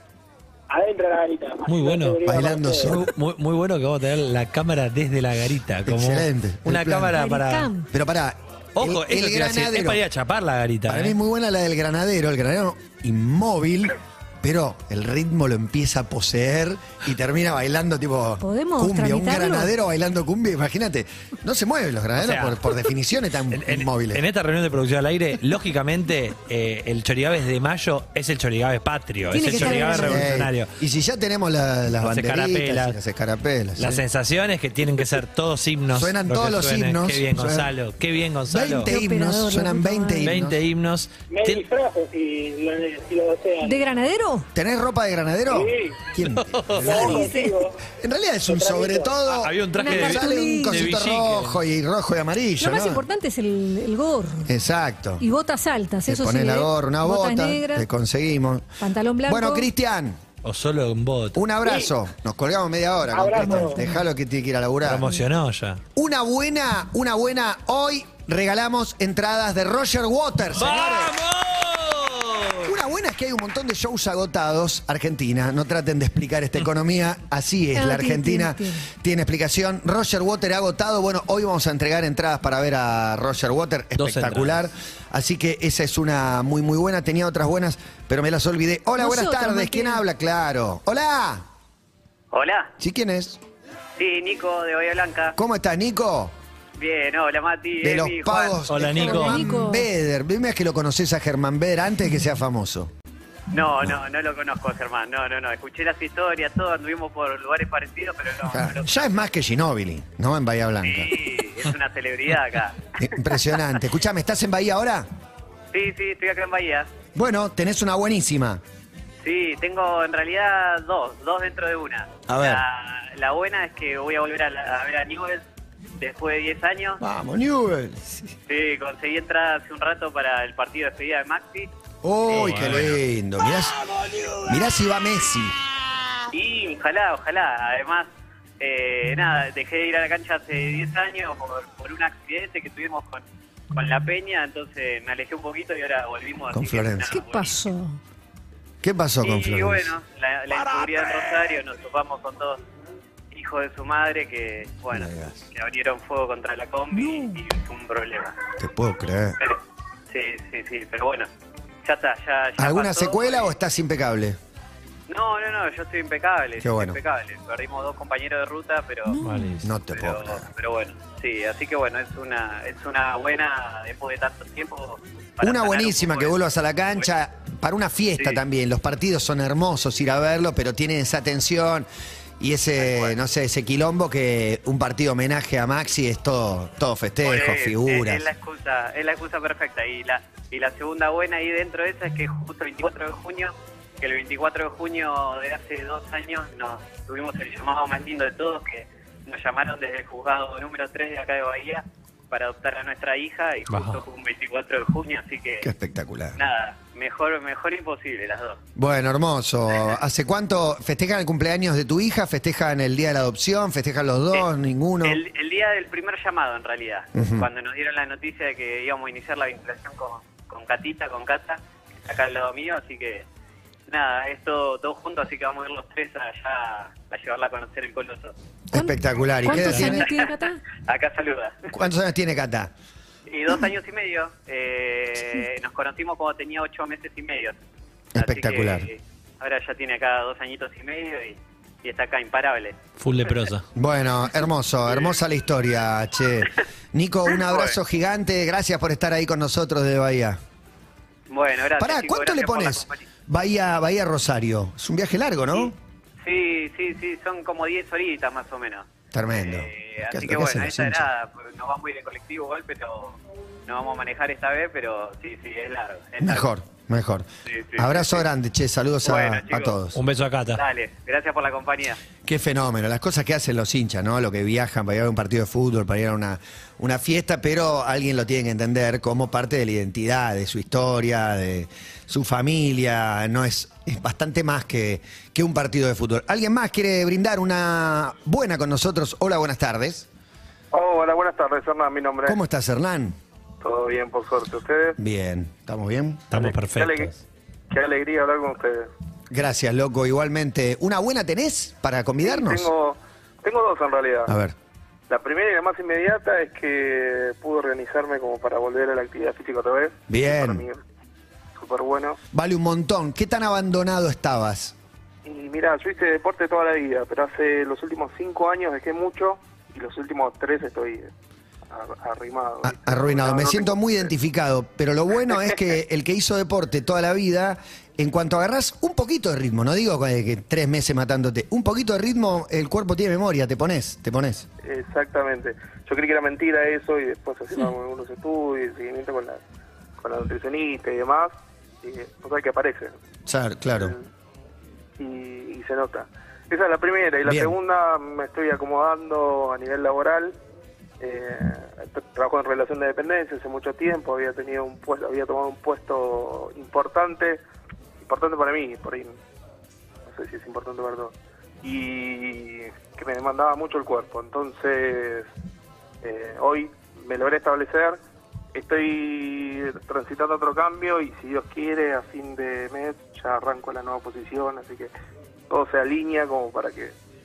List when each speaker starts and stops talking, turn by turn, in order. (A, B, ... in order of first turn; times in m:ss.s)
0:00.7-0:03.0 A
0:01.7-0:02.2 B
0:02.2-0:03.1 C
0:02.9-0:07.7 B
0:05.9-0:07.2 C
0:07.1-0:07.9 D
0:07.9-0:10.0 C
0:08.8-0:11.2 B
0:10.9-0:24.2 C
0:18.4-0:19.7 D
0:22.2-0:22.7 B
0:23.5-0:30.7 B
0:29.3-0:30.3 D
0:29.4-0:34.0 C
0:32.0-0:33.0 B
0:33.8-0:38.9 B
0:35.9-0:37.7 C
0:38.5-0:40.6 C
0:38.9-0:40.4 D
0:40.2-0:41.6 B
0:41.3-0:43.8 A
0:43.6-0:44.5 D
0:44.6-0:47.3 C
0:45.5-0:46.0 A
0:46.2-0:47.1 B
0:46.8-0:47.8 A
0:46.9-0:47.6 D
0:48.0-0:53.0 C
0:48.5-0:49.1 A
0:49.3-0:51.6 B
0:49.8-0:50.9 D
0:52.6-0:54.5 D
0:54.5-0:55.2 C
0:55.2-0:57.9 D
0:56.1-0:58.7 C
0:58.8-0:59.7 D
0:59.3-1:00.2 C
1:00.4-1:01.4 B
1:01.4-1:05.1 C
1:01.6-1:01.9 A
1:03.1-1:03.8 A
1:03.5-1:04.0 D
1:04.8-1:05.8 B
1:06.0-1:11.1 C
1:10.6-1:12.7 B
1:12.6-1:31.5 C
1:17.8-1:18.9 D
1:24.0-1:24.6 B
1:29.0-1:30.0 D
1:32.3-1:32.7 E
1:32.8-1:33.4 C
1:34.0-1:35.4 E
1:35.4-1:36.3 C
1:36.8-1:38.6 E
1:37.8-1:42.9 C
1:38.7-1:39.5 B
1:39.0-1:39.9 D
1:43.5-1:49.1 E
1:48.5-1:51.3 C
1:50.8-1:52.9 E
1:53.0-1:55.1 C
1:55.7-1:56.9 E
1:57.2-1:58.6 C
1:59.2-2:05.4 E
2:02.3-2:02.6 C
2:06.0-2:07.0 E
2:07.0-2:08.2 C
2:08.5-2:11.7 E
2:12.0-2:13.8 C
2:12.3-2:13.0 B
2:14.4-2:15.6 C
2:16.3-2:18.1 E
2:18.6-2:27.5 E
2:26.5-2:27.2 C
2:27.1-2:28.0 D
2:28.8-2:29.9 C
2:29.2-2:32.6 E
2:33.3-2:38.4 E
2:34.9-2:35.4 C
2:36.9-2:37.4 D
2:38.6-2:39.4 C
2:40.1-2:41.3 E
2:41.8-2:43.5 E
2:42.6-2:44.4 C
2:45.1-2:49.2 E
2:46.6-2:47.0 C
2:49.1-2:49.6 D
2:49.2-2:49.7 B
2:49.6-2:50.4 C
2:49.9-2:56.3 E
2:55.4-3:01.9 C
3:02.4-3:08.2 C
3:02.8-3:03.1 E
3:07.2-3:25.7 E
3:23.7-3:24.0 B
3:25.6-3:26.4 C
3:26.4-3:28.6 E
3:28.8-3:35.2 C
3:35.0-3:43.3 E
3:37.2-3:37.5 C
3:43.9-3:48.3 E
3:48.7-3:50.1 C
3:48.7-3:50.6 D
3:49.6-3:50.3 E
3:50.8-3:51.7 E
3:51.7-3:52.7 C
3:53.3-3:57.6 E
3:58.2-3:58.9 C
3:58.2-4:02.8 E
4:03.0-4:03.6 B
4:03.8-4:10.4 C
4:07.4-4:07.7 E
4:11.3-4:13.0 E
4:11.8-4:15.8 C
4:16.2-4:26.4 E
4:19.1-4:21.1 C
4:26.2-4:30.0 C
4:27.5-4:28.2 E
4:29.0-4:29.8 E
4:30.0-4:30.6 B
4:30.5-4:32.0 E
4:32.2-4:50.1 C
4:50.7-4:52.4 F
4:52.3-4:53.2 C
4:53.6-4:55.0 F
4:55.0-4:56.3 C
4:56.3-4:57.1 B
4:56.3-4:57.1 F
4:57.7-4:58.9 F
4:59.3-5:02.7 C
5:02.2-5:04.3 F
5:04.3-5:04.6 C
5:05.1-5:10.8 F
5:10.1-5:10.6 C
5:11.6-5:12.2 F
5:12.3-5:14.8 C
5:15.2-5:21.1 F
5:21.7-5:24.1 F
5:22.6-5:34.5 C
5:34.6-5:39.4 F
5:40.0-5:42.9 F
5:43.3-5:44.0 C
5:43.8-5:44.0 F
5:45.0-5:50.4 F
5:47.2-5:47.6 C
5:51.0-5:57.4 F
5:58.0-5:59.2 F
6:00.1-6:05.3 F
6:06.0-6:08.0 F
6:08.5-6:14.9 F
6:15.5-6:17.0 F